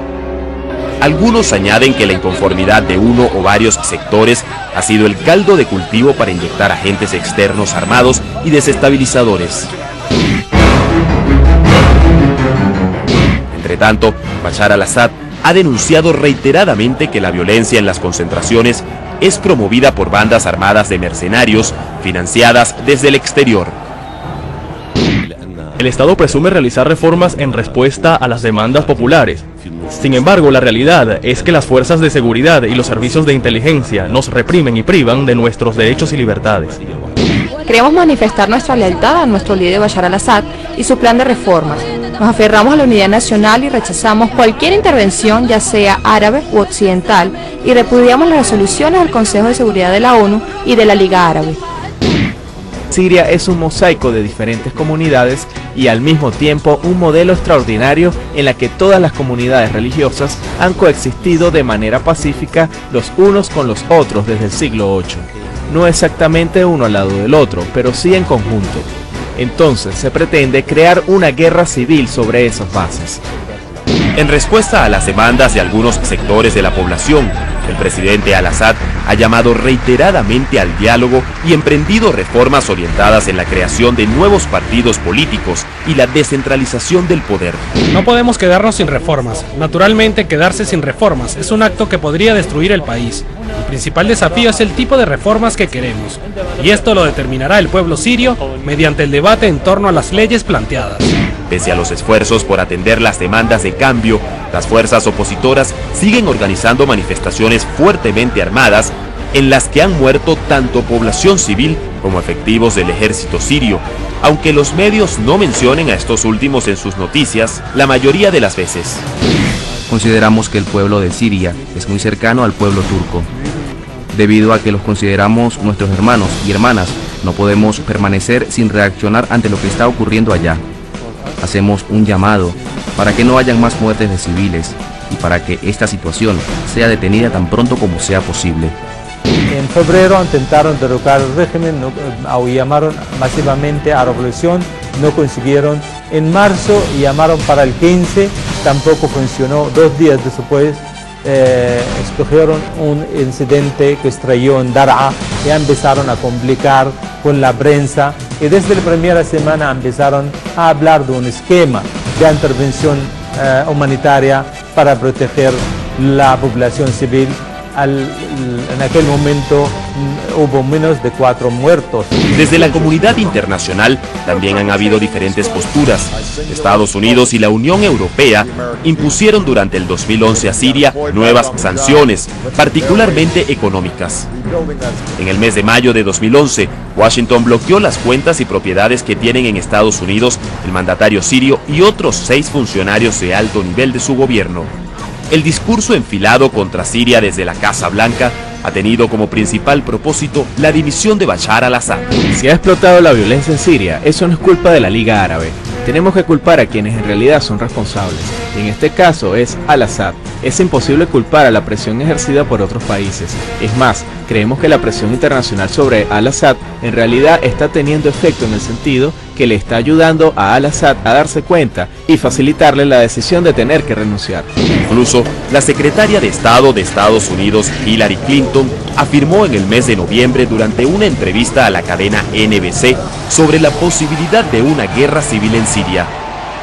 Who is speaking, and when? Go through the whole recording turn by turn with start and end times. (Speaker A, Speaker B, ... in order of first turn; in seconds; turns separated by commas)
Speaker A: 1.0-9.7, Speaker A: 13.5-23.8, Speaker B: 25.8-36.8, Speaker C: 37.7-51.6, Speaker D: 52.9-73.2, Speaker A: 74.2-87.7, Speaker E: 87.9-101.2, Speaker A: 101.5-119.0, Speaker F: 119.9-123.3, Speaker F: 124.1-130.6, Speaker F: 131.4-138.8, Speaker G: 139.5-172.3, Speaker A: 172.3-184.3, Speaker A: 185.2-194.7, Speaker A: 195.3-202.2, Speaker D: 202.3-224.5, Speaker A: 224.9-236.1